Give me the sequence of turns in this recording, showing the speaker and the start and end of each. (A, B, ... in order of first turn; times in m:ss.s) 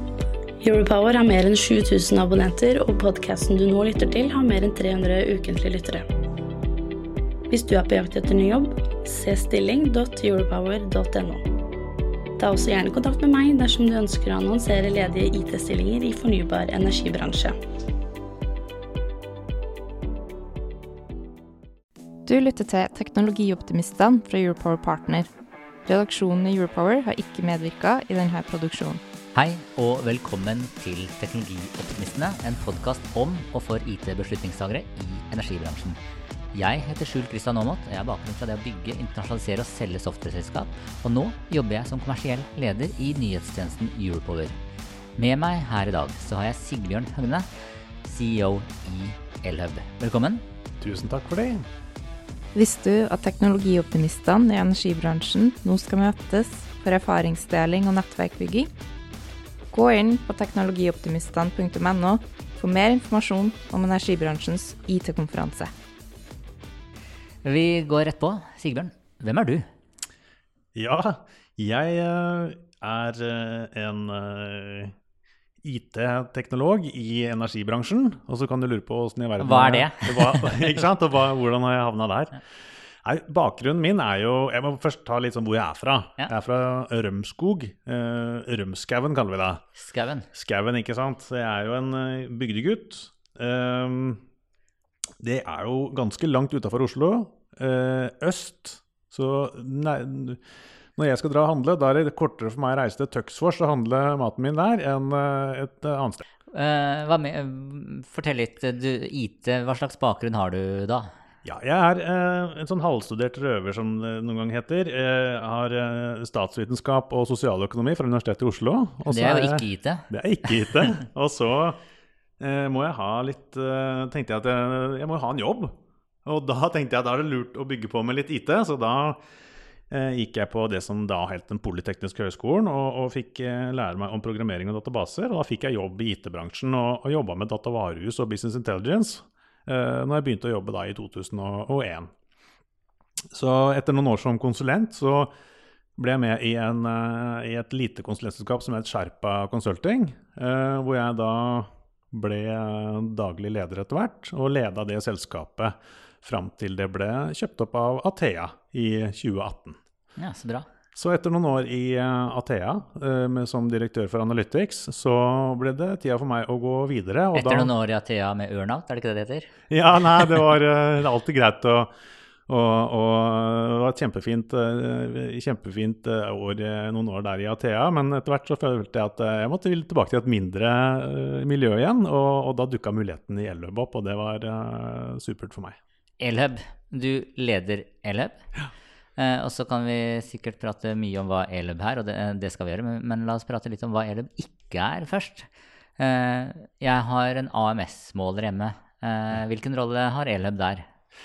0:00.6-0:06.0 A
0:07.5-0:11.5 A
0:12.4-0:17.6 A
0:22.2-0:25.3 B
0:25.8-0:29.0 B
0:29.3-0:36.0 C
0:36.5-0:44.6 C
0:45.2-0:47.5 C
0:48.0-0:50.4 C
0:50.8-0:51.6 D
0:52.5-0:58.7 B
0:59.7-1:05.7 B
1:07.4-1:09.7 C
1:10.7-1:14.9 D
1:15.6-1:22.4 D
1:19.4-1:20.8 C
1:23.0-1:29.6 D
1:29.8-1:30.3 C
1:30.3-1:34.2 D
1:35.2-1:40.4 D
1:41.0-1:46.2 D
1:46.5-1:51.1 C
1:51.4-2:01.8 D
1:59.1-2:00.1 C
2:02.4-2:09.2 D
2:09.9-2:22.1 D
2:23.3-2:25.3 D
2:26.0-2:39.8 D
2:40.2-2:40.7 C
2:41.0-2:47.7 D
2:47.3-2:49.5 C
2:49.7-2:51.9 D
2:52.5-3:05.8 D
3:06.2-3:08.4 C
3:09.2-3:15.5 C
3:16.0-3:20.8 C